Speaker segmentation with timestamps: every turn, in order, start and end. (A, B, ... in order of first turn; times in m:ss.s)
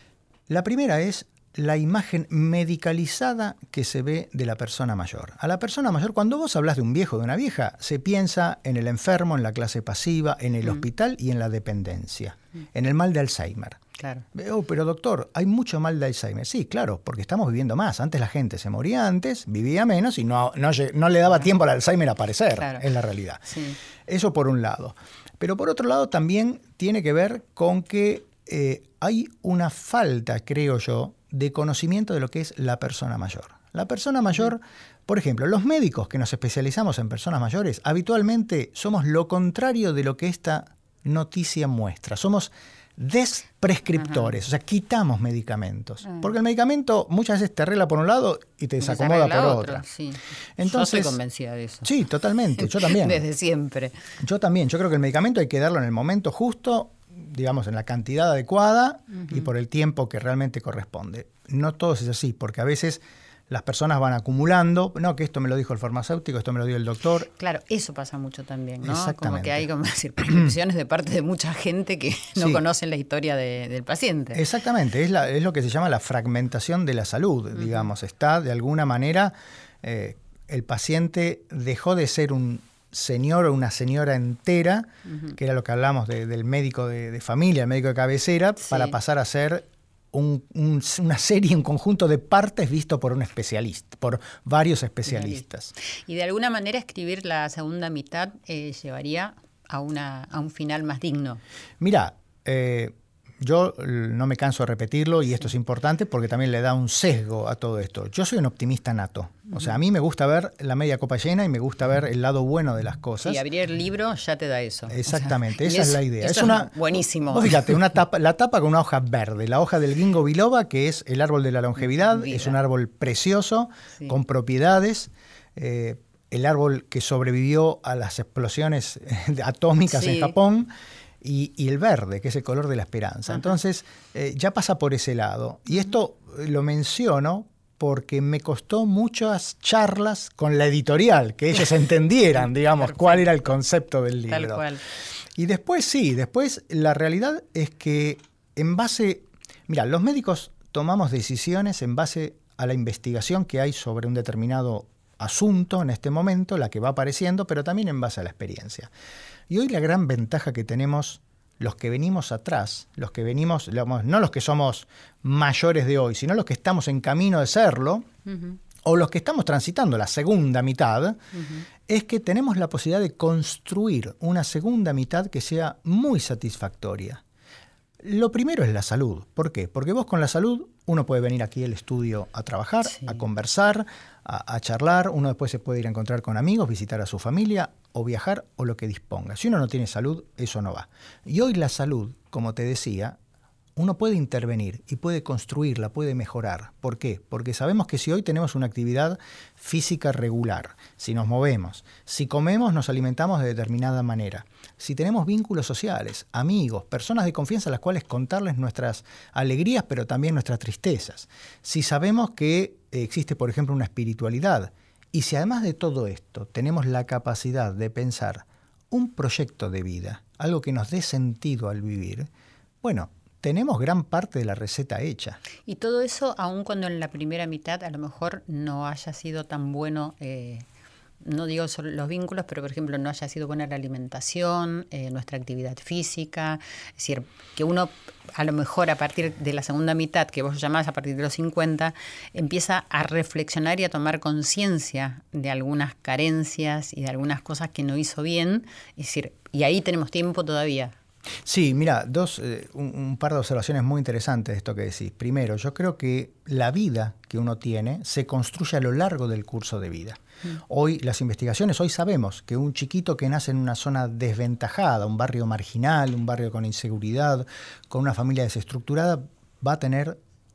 0:00.5-0:13.8 A
0:14.0-0:14.2 B
0:14.3-0:49.8 A
0:22.6-0:22.8 B
0:23.5-0:23.8 B
0:48.8-0:51.9 B
0:50.6-0:51.2 A
0:51.8-0:53.2 A
0:52.6-0:54.0 B
0:54.2-1:07.3 A
0:59.1-0:59.5 B
1:07.4-1:14.4 B
1:08.8-1:09.7 A
1:12.4-1:12.6 A
1:14.4-1:35.7 A
1:17.5-1:17.9 B
1:25.1-1:25.4 B
1:28.6-1:28.9 B
1:35.1-1:35.4 B
1:36.0-1:41.4 B
1:41.8-1:53.4 A
1:53.2-1:57.8 B
1:54.9-2:10.7 A
2:01.8-2:02.6 B
2:09.9-2:10.3 B
2:11.2-2:24.6 A
2:22.8-2:23.2 B
2:24.3-2:24.8 B
2:25.4-2:38.9 A
2:39.5-2:48.1 A
2:48.2-2:48.6 B
2:48.8-2:51.2 A
2:51.3-2:51.6 B
2:51.9-2:57.2 A
2:58.0-3:13.2 A
3:02.9-3:03.2 B
3:13.8-3:42.3 A
3:42.8-3:45.4 A
3:45.6-3:50.6 B
3:51.2-4:11.0 B
4:11.4-4:30.2 A